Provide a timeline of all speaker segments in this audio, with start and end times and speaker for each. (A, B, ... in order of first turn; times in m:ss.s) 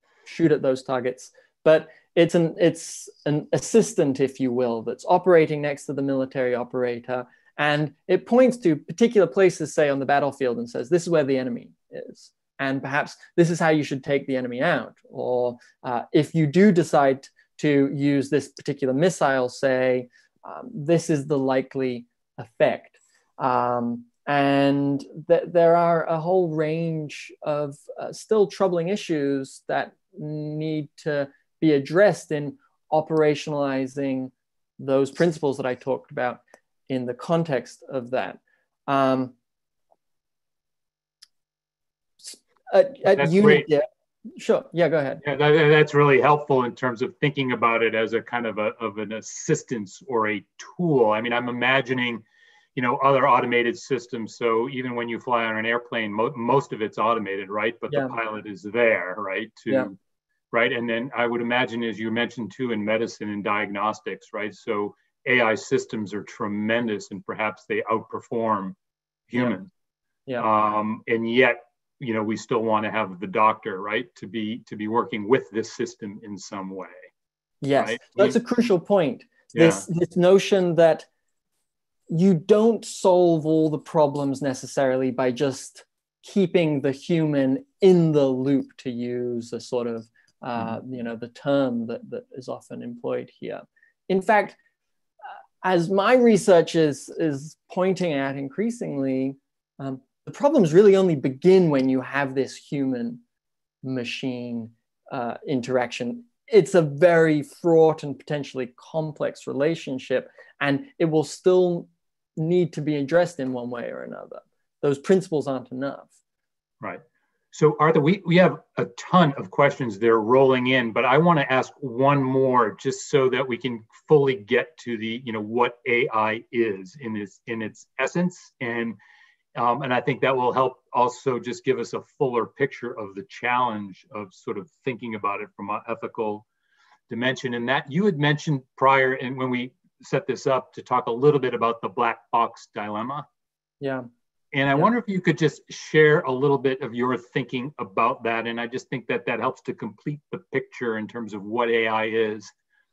0:00.2-0:39.3 A
0:42.2-0:45.2 A
0:43.1-0:43.7 B
0:45.2-0:52.2 B
0:52.7-1:00.0 B
0:57.9-0:58.1 A
1:00.5-1:08.8 B
1:09.3-1:09.7 B
1:10.4-1:17.1 B
1:17.6-1:21.1 A
1:17.8-1:18.4 B
1:19.5-1:19.8 B
1:22.1-1:34.6 A
1:35.6-1:43.2 A
1:43.8-1:56.1 A
1:56.8-2:09.0 B
2:09.5-2:16.4 B
2:17.1-2:23.2 B
2:23.8-2:24.1 A
2:24.5-2:32.5 B